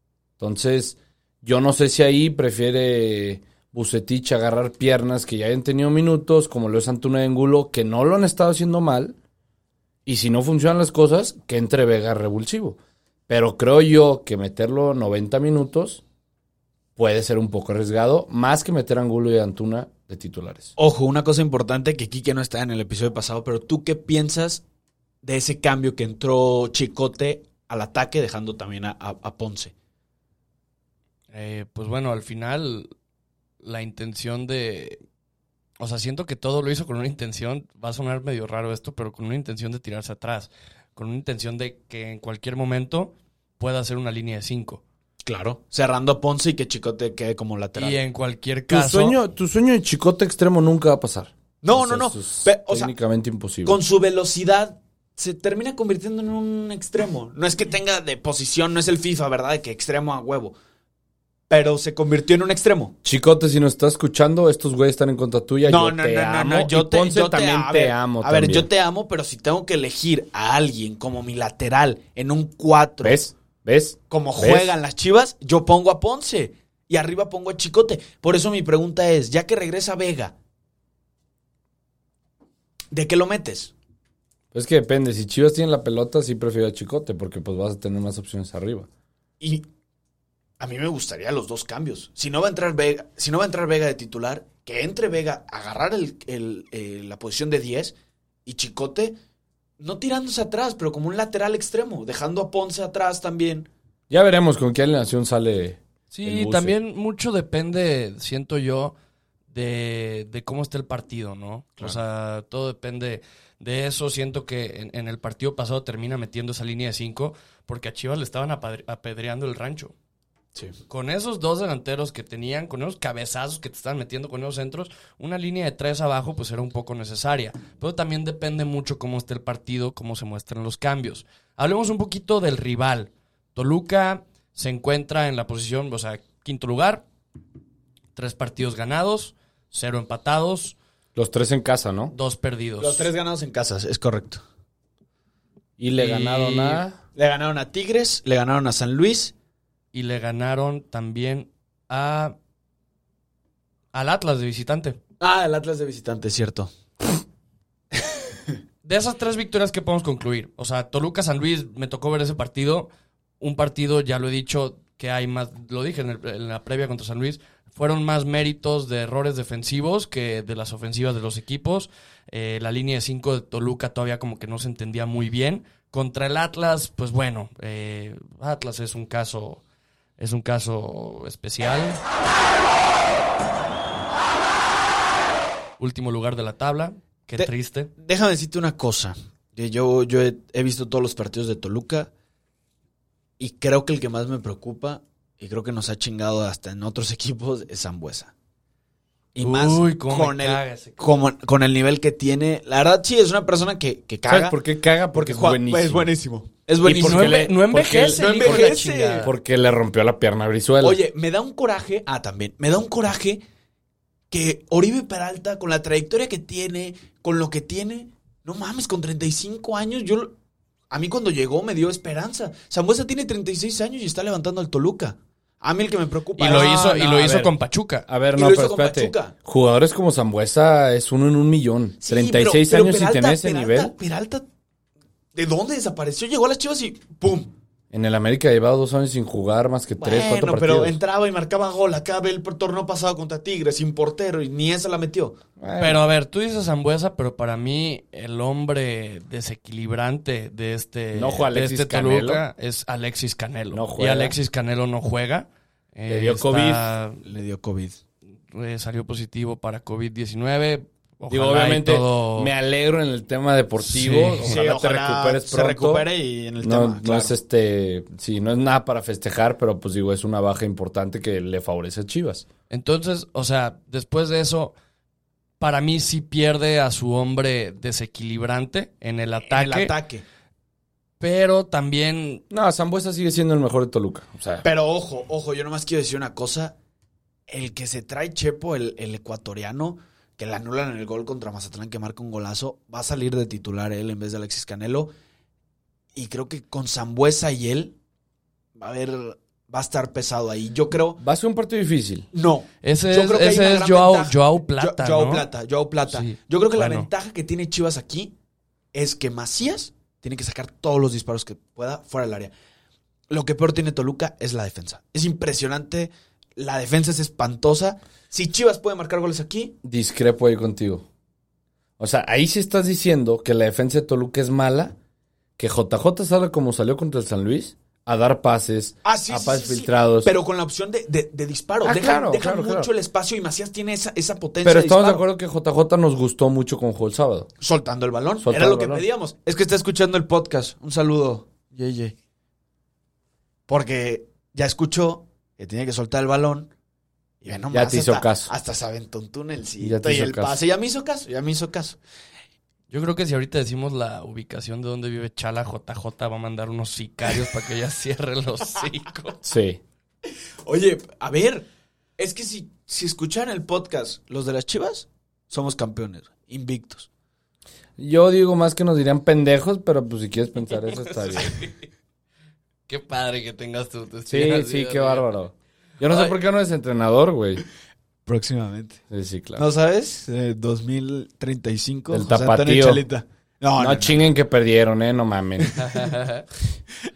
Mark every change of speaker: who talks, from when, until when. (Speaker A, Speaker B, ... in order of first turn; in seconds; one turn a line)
Speaker A: 0.4-9.2
Speaker A: 10.1-12.8
Speaker A: 13.3-16.0
Speaker A: 17.0-20.7
Speaker B: 20.8-24.6
Speaker B: 25.2-29.7
Speaker C: 31.3-32.9
Speaker C: 33.6-35.0
Speaker C: 35.8-44.8
Speaker B: 45.2-48.0
Speaker C: 47.8-49.2
Speaker A: 48.7-53.8
Speaker B: 51.6-52.9
Speaker B: 53.6-60.5
Speaker B: 61.5-62.9
Speaker A: 63.0-68.7
Speaker B: 65.6-73.2
Speaker A: 73.0-74.7
Speaker B: 74.1-80.3
Speaker B: 82.9-83.7
Speaker A: 84.5-88.9
Speaker B: 90.6-97.9
Speaker B: 98.5-99.2
Speaker B: 99.8-103.7
Speaker A: 104.1-106.7
Speaker C: 106.1-108.9
Speaker C: 109.5-119.9
Speaker C: 120.9-137.1
Speaker C: 138.2-140.8
Speaker A: 141.1-142.1
Speaker C: 142.1-143.1
Speaker B: 142.8-144.4
Speaker A: 145.8-147.0
Speaker C: 145.9-146.8
Speaker B: 147.1-149.3
Speaker C: 149.9-152.3
Speaker C: 153.9-155.0
Speaker B: 155.2-157.2
Speaker C: 158.8-179.6
Speaker C: 180.2-182.0
Speaker C: 185.8-187.9
Speaker B: 187.4-192.1
Speaker B: 193.4-198.3
Speaker B: 199.3-204.6
Speaker C: 199.4-201.1
Speaker A: 204.3-206.1
Speaker B: 205.1-209.3
Speaker A: 206.8-211.0
Speaker C: 206.8-209.3
Speaker B: 210.8-213.4
Speaker B: 214.3-220.3
Speaker B: 220.9-226.8
Speaker C: 226.4-228.1
Speaker A: 226.4-227.5
Speaker A: 228.1-233.9
Speaker B: 228.3-229.3
Speaker B: 232.0-234.4
Speaker B: 235.3-237.5
Speaker A: 237.9-241.0
Speaker B: 240.0-245.3
Speaker A: 245.6-246.0
Speaker C: 245.8-257.2
Speaker A: 251.1-252.4
Speaker A: 253.7-254.3
Speaker A: 256.1-256.9
Speaker B: 257.2-258.0
Speaker C: 258.5-262.5
Speaker A: 261.3-266.1
Speaker C: 263.8-264.6
Speaker B: 264.4-267.3
Speaker A: 266.6-272.4
Speaker C: 272.7-274.7
Speaker C: 275.6-279.9
Speaker B: 279.5-280.2
Speaker C: 281.2-282.4
Speaker A: 282.5-284.6
Speaker B: 284.6-286.7
Speaker B: 287.5-295.1
Speaker B: 296.1-297.9
Speaker B: 298.8-301.2
Speaker A: 301.2-302.3
Speaker B: 302.3-308.3
Speaker C: 302.8-305.5
Speaker C: 306.1-307.1
Speaker B: 308.9-312.5
Speaker B: 313.3-319.8
Speaker A: 319.8-321.0
Speaker A: 322.0-324.9
Speaker A: 325.6-330.3
Speaker B: 329.0-335.2
Speaker A: 331.8-332.9
Speaker A: 334.6-337.5
Speaker B: 337.6-342.1
Speaker A: 338.4-339.0
Speaker B: 343.7-346.7
Speaker B: 347.4-352.0
Speaker A: 347.7-348.5
Speaker A: 349.8-350.6
Speaker C: 352.9-359.4
Speaker A: 359.4-359.8
Speaker B: 360.6-361.6
Speaker B: 362.2-367.1
Speaker A: 368.0-371.5
Speaker C: 370.8-371.9
Speaker C: 372.9-375.3
Speaker A: 374.3-377.6
Speaker B: 378.2-379.0
Speaker A: 379.1-379.7
Speaker B: 379.6-384.3
Speaker A: 382.1-383.0
Speaker A: 383.8-385.8
Speaker C: 385.8-386.4